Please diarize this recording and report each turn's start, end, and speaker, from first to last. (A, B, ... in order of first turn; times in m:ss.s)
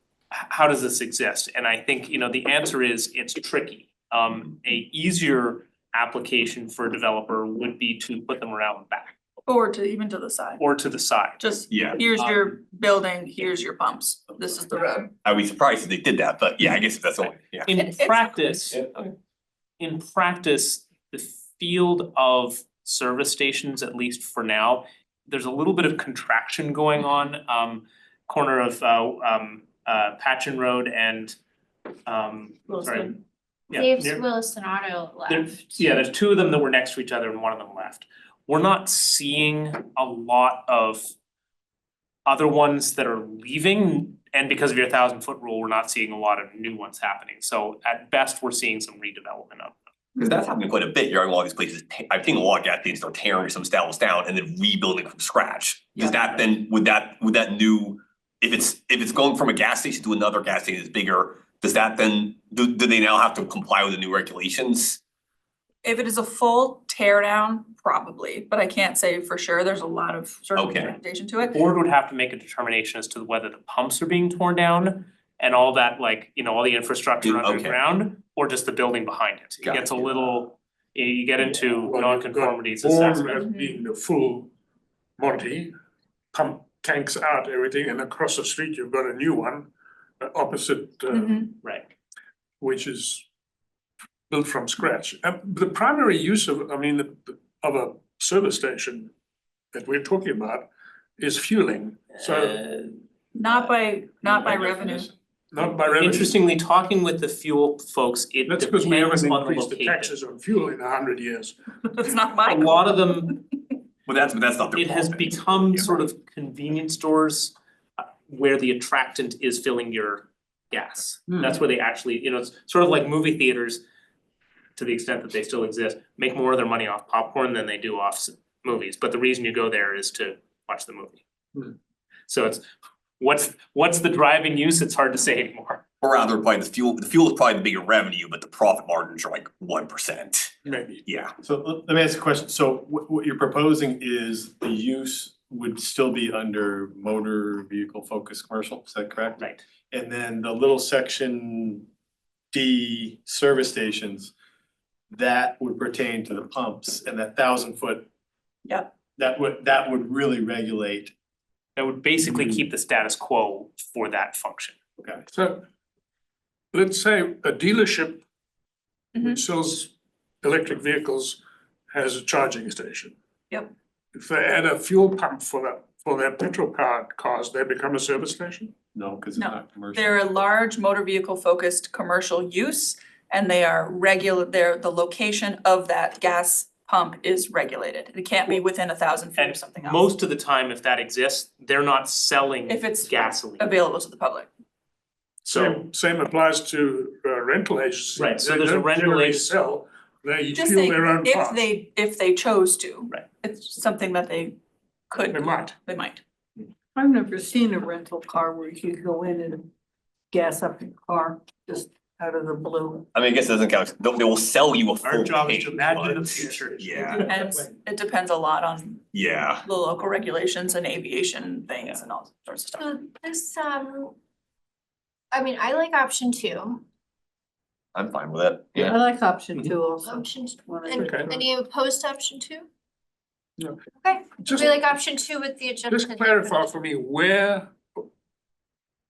0:00.3-0:09.1 A
0:09.5-0:10.6 B
0:10.6-0:11.4 A
0:11.4-0:15.1 B
0:11.7-0:12.0 C
0:15.2-0:17.7 C
0:17.6-0:18.8 A
0:17.7-0:18.7 B
0:18.7-0:19.1 C
0:19.8-0:31.4 A
0:32.0-0:33.2 A
0:33.7-0:34.3 A
0:33.7-0:35.8 D
0:35.3-0:41.1 A
0:42.2-0:49.8 A
0:50.2-1:05.0 C
1:05.8-1:11.6 B
1:10.5-1:10.9 C
1:11.4-1:23.4 A
1:17.2-1:17.7 C
1:19.6-1:20.0 C
1:21.4-1:24.5 E
1:23.4-1:23.8 B
1:25.2-1:25.7 E
1:26.3-1:29.7 E
1:30.2-1:31.4 E
1:31.1-1:31.5 B
1:31.6-1:31.9 A
1:32.6-1:33.2 E
1:34.3-1:39.1 E
1:39.7-1:42.7 E
1:42.5-1:42.9 A
1:43.3-1:45.1 B
1:45.5-1:46.4 E
1:45.9-1:50.1 A
1:48.5-1:51.6 E
1:52.0-1:53.3 B
1:52.4-1:53.4 A
1:54.0-1:55.4 C
1:54.8-1:57.5 A
1:58.3-2:03.8 A
2:01.3-2:01.6 E
2:04.8-2:11.2 A
2:12.3-2:12.6 A
2:13.2-2:15.8 A
2:16.0-2:21.3 C
2:20.6-2:21.0 E
2:21.4-2:31.9 F
2:32.5-2:34.3 F
2:35.1-2:38.0 F
2:39.2-2:41.1 F
2:41.8-2:44.7 A
2:42.2-2:42.6 F
2:45.3-2:45.6 E
2:46.7-2:48.2 E
2:49.2-2:49.4 B
2:49.2-2:49.9 E
2:50.4-2:51.4 E
2:51.9-2:53.1 E
2:54.1-2:58.7 E
2:58.9-3:00.2 F
2:59.4-3:10.0 B
3:09.4-3:13.7 A
3:12.7-3:14.5 B
3:15.4-3:21.6 E
3:15.5-3:15.8 A
3:18.2-3:19.5 A
3:20.5-3:24.5 B
3:25.1-3:26.2 B
3:25.2-3:25.7 E
3:26.9-3:29.7 G
3:30.3-3:33.0 G
3:33.1-3:37.2 C
3:35.0-3:37.4 A
3:37.3-3:39.0 B
3:39.1-3:39.6 C
3:39.6-3:42.9 B
3:42.7-3:44.1 D
3:45.3-3:46.8 D
3:47.9-3:48.9 C
3:48.7-3:51.3 G
3:50.0-3:52.7 D
3:51.0-3:51.4 E
3:54.0-3:56.7 D
3:54.4-3:55.0 E
3:55.9-3:58.0 E